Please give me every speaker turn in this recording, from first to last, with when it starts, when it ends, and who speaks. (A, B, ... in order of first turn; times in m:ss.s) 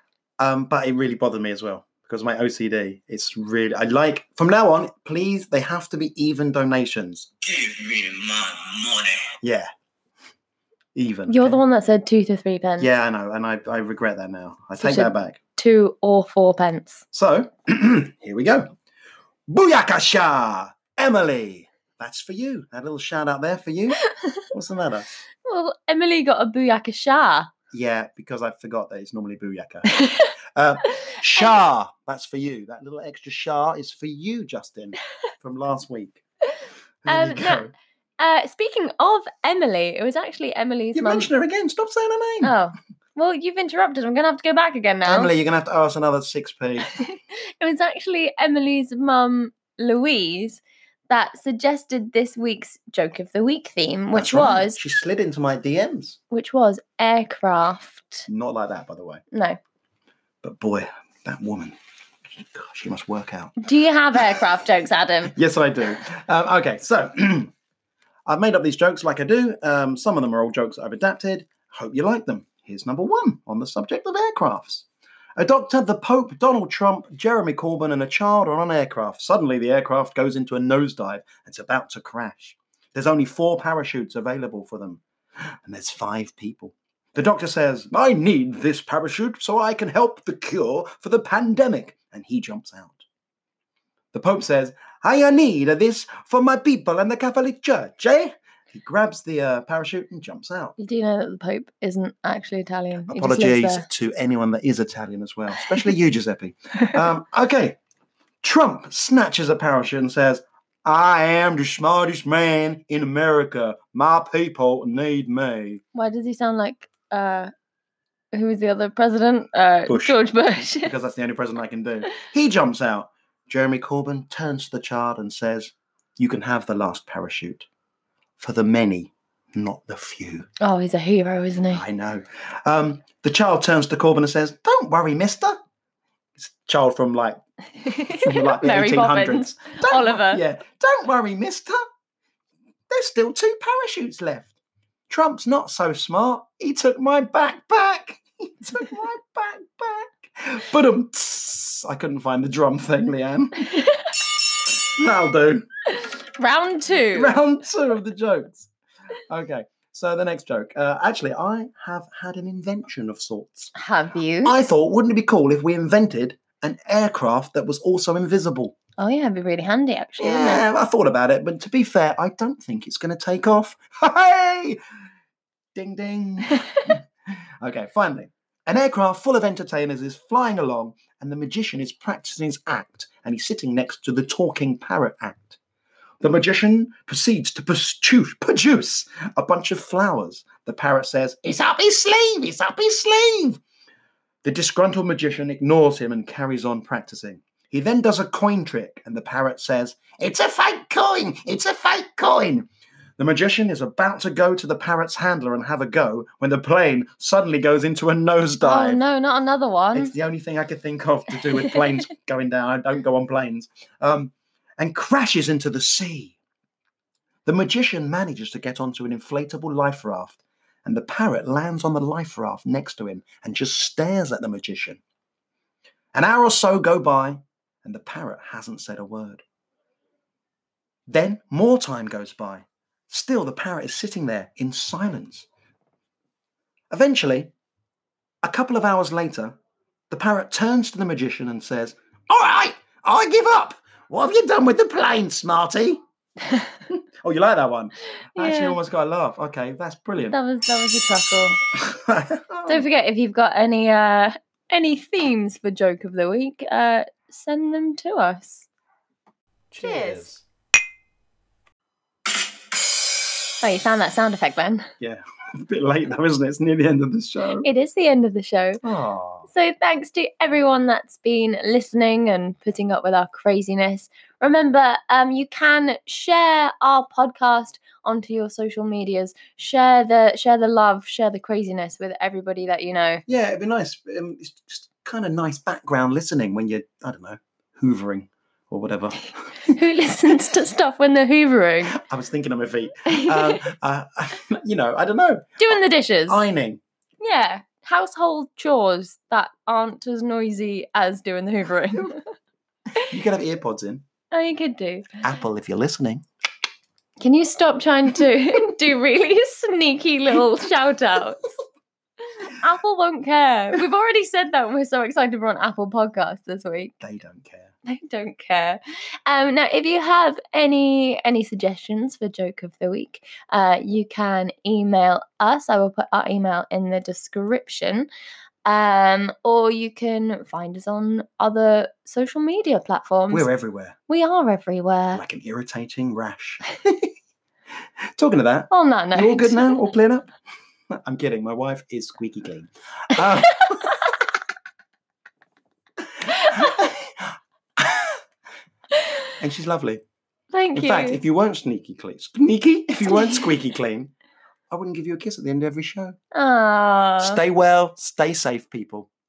0:00.4-0:09.7 A
0:11.0-0:11.6 A
0:11.3-0:12.9 B
0:12.8-0:15.4 A
0:14.8-0:17.0 B
0:17.1-0:18.7 A
0:19.5-0:24.0 A
0:24.5-0:25.2 A
0:25.5-0:27.5 B
0:27.7-0:30.0 A
0:29.9-0:30.3 B
0:30.5-0:36.2 A
0:31.0-0:31.5 B
0:37.0-0:37.7 A
0:37.1-0:41.3 B
0:40.9-0:42.6 A
0:42.4-0:45.3 B
0:45.0-0:46.9 A
0:46.8-0:54.8 B
0:54.1-0:56.2 A
0:56.3-0:58.3 B
0:58.3-0:59.2 A
0:59.3-0:59.6 B
1:00.4-1:01.8 A
1:02.3-1:03.6 A
1:03.6-1:05.4 B
1:05.3-1:07.5 A
1:08.3-1:33.0 A
1:34.1-1:40.8 A
1:40.8-1:43.9 B
1:43.1-1:47.8 A
1:48.4-1:55.8 A
1:55.9-1:57.5 B
1:58.3-2:00.9 B
1:59.9-2:07.7 A
2:08.4-2:10.5 A
2:10.6-2:11.8 B
2:11.7-2:15.6 A
2:16.4-2:17.4 A
2:17.8-2:20.4 B
2:18.1-2:21.8 A
2:22.9-2:24.5 A
2:25.1-2:33.9 A
2:34.8-2:35.7 A
2:36.0-2:37.4 B
2:37.1-2:38.7 A
2:39.3-2:43.7 A
2:43.8-2:44.6 B
2:44.4-2:48.8 A
2:49.0-2:50.6 B
2:50.2-2:54.8 A
2:55.8-2:57.0 A
2:57.6-3:05.6 A
3:06.2-3:13.6 A
3:14.4-3:22.7 A
3:23.2-3:29.0 A
3:28.6-3:30.1 B
3:30.0-3:36.4 A
3:37.4-3:45.0 A
3:46.1-3:49.4 A
3:51.1-3:55.5 A
3:56.9-3:57.5 A
3:58.4-3:59.6 A
4:00.1-4:06.0 A
4:06.9-4:10.4 A
4:08.4-4:08.8 B
4:10.3-4:11.6 B
4:11.8-4:12.8 A
4:12.7-4:18.7 B
4:19.7-4:20.4 A
4:19.8-4:20.3 B
4:23.6-4:24.9 B
4:25.0-4:27.7 A
4:27.6-4:28.8 B
4:28.8-4:29.5 A
4:29.5-4:43.2 B
4:43.3-4:49.3 A
4:49.7-4:52.0 B
4:51.9-4:56.8 A
4:53.1-4:53.6 B
4:55.6-4:56.5 B
4:57.2-5:02.2 B
5:03.1-5:04.0 A
5:04.3-5:05.1 B
5:05.2-5:06.2 A
5:07.2-5:11.5 B
5:12.4-5:17.0 B
5:17.0-5:17.7 A
5:17.9-5:28.1 B
5:28.6-5:33.5 B
5:33.3-5:34.0 A
5:34.1-5:35.2 B
5:35.1-5:37.1 A
5:38.2-5:40.3 A
5:38.7-5:39.8 B
5:40.9-5:44.1 A
5:46.2-5:48.2 A
5:49.4-5:50.0 A
5:50.5-5:51.2 B
5:50.8-5:54.1 A
5:53.1-5:53.4 B
5:54.7-5:56.2 A
5:56.3-5:57.4 B
5:57.2-5:59.1 A